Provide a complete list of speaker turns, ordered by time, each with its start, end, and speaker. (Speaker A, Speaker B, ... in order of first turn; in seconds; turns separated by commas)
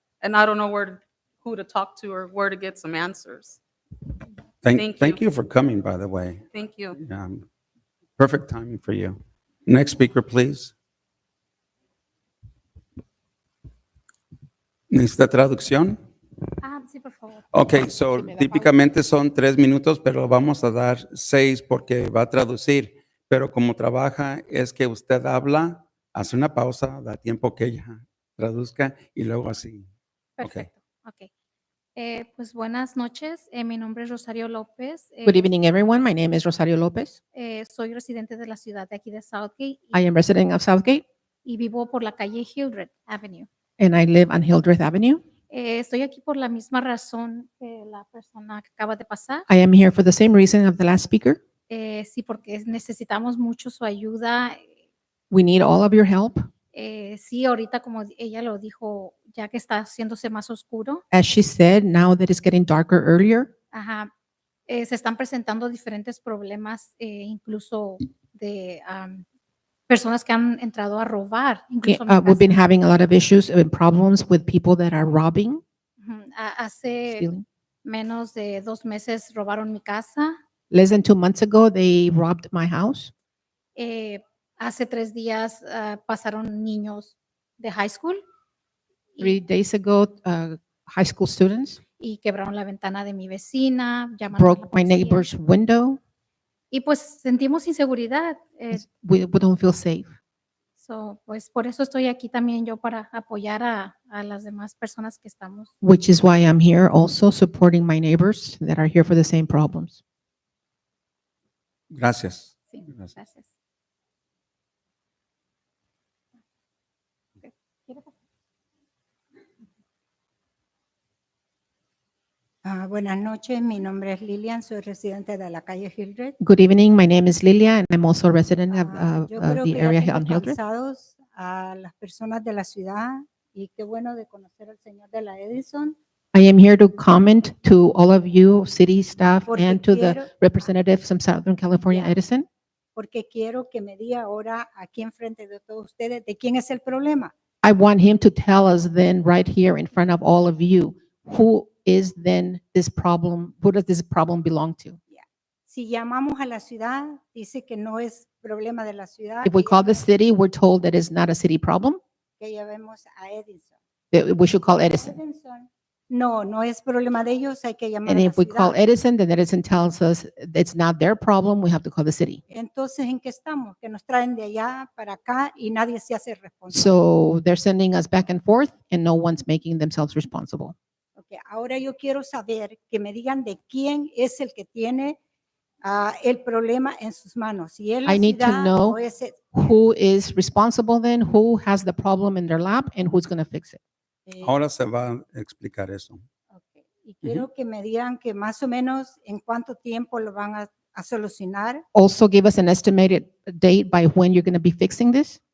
Speaker A: 0.2-3.6, Speaker B: 4.6-7.5, Speaker A: 4.7-5.2, Speaker A: 6.5-7.0, Speaker B: 8.2-10.7, Speaker B: 14.9-16.0, Speaker C: 16.6-17.6, Speaker B: 17.5-29.9, Speaker D: 18.1-18.7, Speaker C: 30.4-31.3, Speaker B: 30.4-30.7, Speaker C: 32.0-35.5, Speaker D: 35.2-37.2, Speaker C: 37.3-40.0, Speaker D: 39.9-41.0, Speaker C: 41.5-43.5, Speaker D: 43.8-45.2, Speaker C: 45.5-49.5, Speaker D: 49.5-51.4, Speaker C: 51.7-54.7, Speaker D: 55.3-56.5, Speaker C: 56.7-61.0, Speaker D: 61.1-63.5, Speaker C: 63.7-64.1, Speaker C: 64.7-69.2, Speaker C: 69.9-72.6, Speaker D: 71.8-75.6, Speaker C: 76.0-77.3, Speaker D: 77.1-77.5, Speaker C: 77.8-80.4, Speaker D: 80.7-83.1, Speaker C: 83.8-88.2, Speaker C: 89.2-89.4, Speaker D: 89.2-91.8, Speaker C: 92.0-95.3, Speaker D: 94.3-96.0, Speaker C: 96.7-98.8, Speaker D: 98.7-100.1, Speaker C: 100.8-105.7, Speaker D: 105.8-110.0, Speaker B: 111.9-113.1, Speaker C: 112.7-113.5, Speaker C: 117.4-118.1, Speaker E: 122.7-126.4, Speaker D: 126.4-130.6, Speaker E: 128.7-136.0, Speaker D: 136.3-142.5, Speaker E: 139.5-140.3, Speaker E: 142.9-147.3, Speaker D: 147.6-155.0, Speaker E: 155.1-160.0, Speaker D: 159.4-162.0, Speaker E: 162.4-163.8, Speaker D: 164.1-165.2, Speaker E: 165.0-168.8, Speaker D: 168.1-172.4, Speaker E: 172.5-176.9, Speaker D: 176.7-180.8, Speaker E: 181.2-185.2, Speaker E: 185.8-189.5, Speaker D: 188.1-189.0, Speaker D: 189.5-193.8, Speaker E: 194.3-194.5, Speaker B: 194.4-196.2, Speaker E: 196.5-201.8, Speaker D: 201.9-205.4